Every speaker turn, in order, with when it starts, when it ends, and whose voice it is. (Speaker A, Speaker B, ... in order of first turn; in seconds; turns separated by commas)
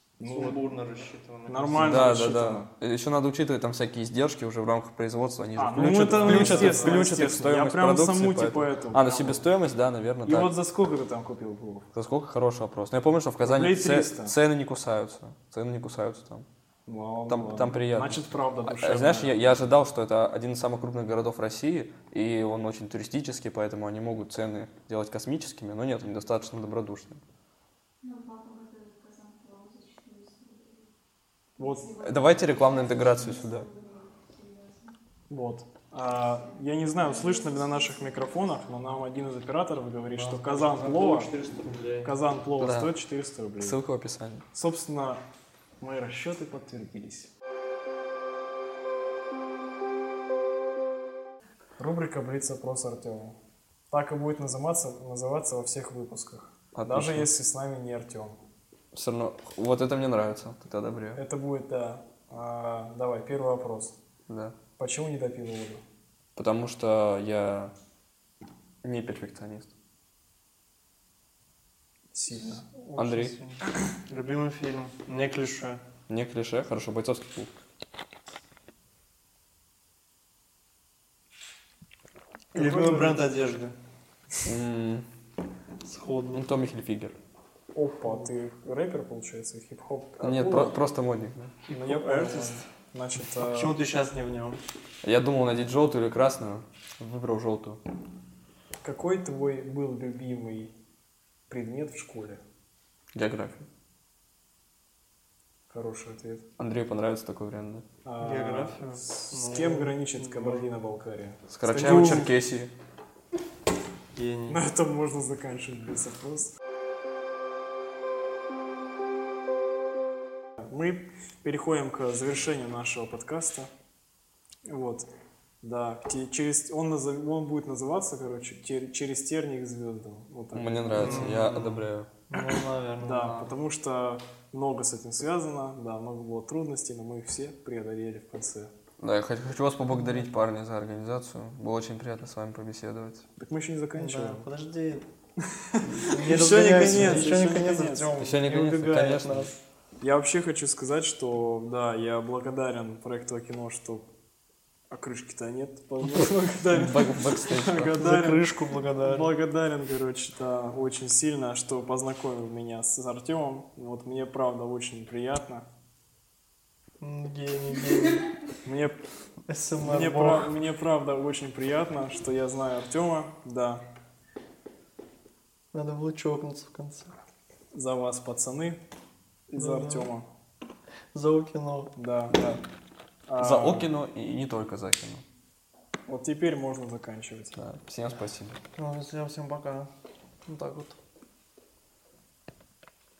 Speaker A: 0.2-0.6, Speaker B: 0.2-2.2, Speaker A: 1.5-2.7, Speaker C: 1.8-10.5, Speaker A: 5.6-9.4, Speaker B: 6.1-7.1, Speaker A: 10.2-11.9, Speaker C: 11.9-16.5, Speaker A: 13.4-14.3, Speaker A: 16.9-19.3, Speaker C: 17.3-27.2, Speaker D: 28.0-30.9, Speaker A: 31.6-31.9, Speaker D: 31.6-35.0, Speaker C: 32.0-33.7, Speaker A: 35.3-41.3, Speaker D: 36.4-38.8, Speaker B: 40.2-42.1, Speaker A: 42.0-43.8, Speaker C: 42.6-42.9, Speaker C: 43.6-44.4, Speaker A: 44.5-45.2, Speaker A: 45.8-47.3, Speaker A: 51.8-53.4, Speaker A: 53.9-58.4, Speaker C: 56.7-57.3, Speaker C: 58.9-61.2, Speaker A: 61.1-64.0, Speaker C: 64.3-64.6, Speaker A: 64.8-65.8, Speaker C: 66.4-67.7, Speaker C: 68.8-69.7, Speaker A: 72.1-72.8, Speaker B: 72.5-75.8, Speaker C: 73.0-73.3, Speaker C: 76.1-77.5, Speaker B: 82.5-83.8, Speaker A: 82.5-83.2, Speaker C: 84.5-85.1, Speaker B: 85.8-86.4, Speaker C: 86.3-87.1, Speaker A: 87.7-90.8, Speaker C: 90.2-91.5, Speaker B: 91.7-92.6, Speaker A: 91.7-93.7, Speaker B: 93.4-94.6, Speaker C: 95.0-97.8, Speaker A: 98.8-100.7, Speaker A: 101.5-102.4, Speaker C: 103.1-103.7, Speaker A: 105.7-106.5, Speaker C: 106.6-107.8, Speaker A: 108.0-112.3, Speaker B: 108.2-110.9, Speaker C: 111.5-112.7, Speaker B: 111.8-112.3, Speaker B: 114.1-114.6, Speaker A: 114.5-116.5, Speaker A: 120.6-123.7, Speaker A: 124.7-125.1, Speaker A: 125.6-131.4, Speaker C: 130.5-132.1, Speaker B: 131.0-133.5, Speaker A: 133.0-138.7, Speaker C: 139.0-143.2, Speaker B: 140.0-140.2, Speaker A: 143.4-144.4, Speaker B: 144.0-145.1, Speaker A: 145.4-148.1, Speaker B: 146.0-149.5, Speaker C: 148.2-149.5, Speaker A: 150.0-154.0, Speaker A: 154.9-158.4, Speaker C: 156.7-158.0, Speaker B: 157.9-159.3, Speaker A: 159.0-165.6, Speaker B: 167.0-168.3, Speaker A: 168.6-169.0, Speaker B: 169.5-170.5, Speaker A: 169.8-173.8, Speaker B: 175.7-177.1, Speaker A: 177.7-178.8, Speaker A: 179.5-180.2, Speaker B: 179.6-180.1, Speaker B: 181.1-181.9, Speaker A: 182.0-182.6, Speaker A: 183.3-183.9, Speaker C: 183.4-185.2, Speaker A: 186.1-187.6, Speaker C: 187.6-188.6, Speaker B: 188.8-189.9, Speaker B: 190.5-191.0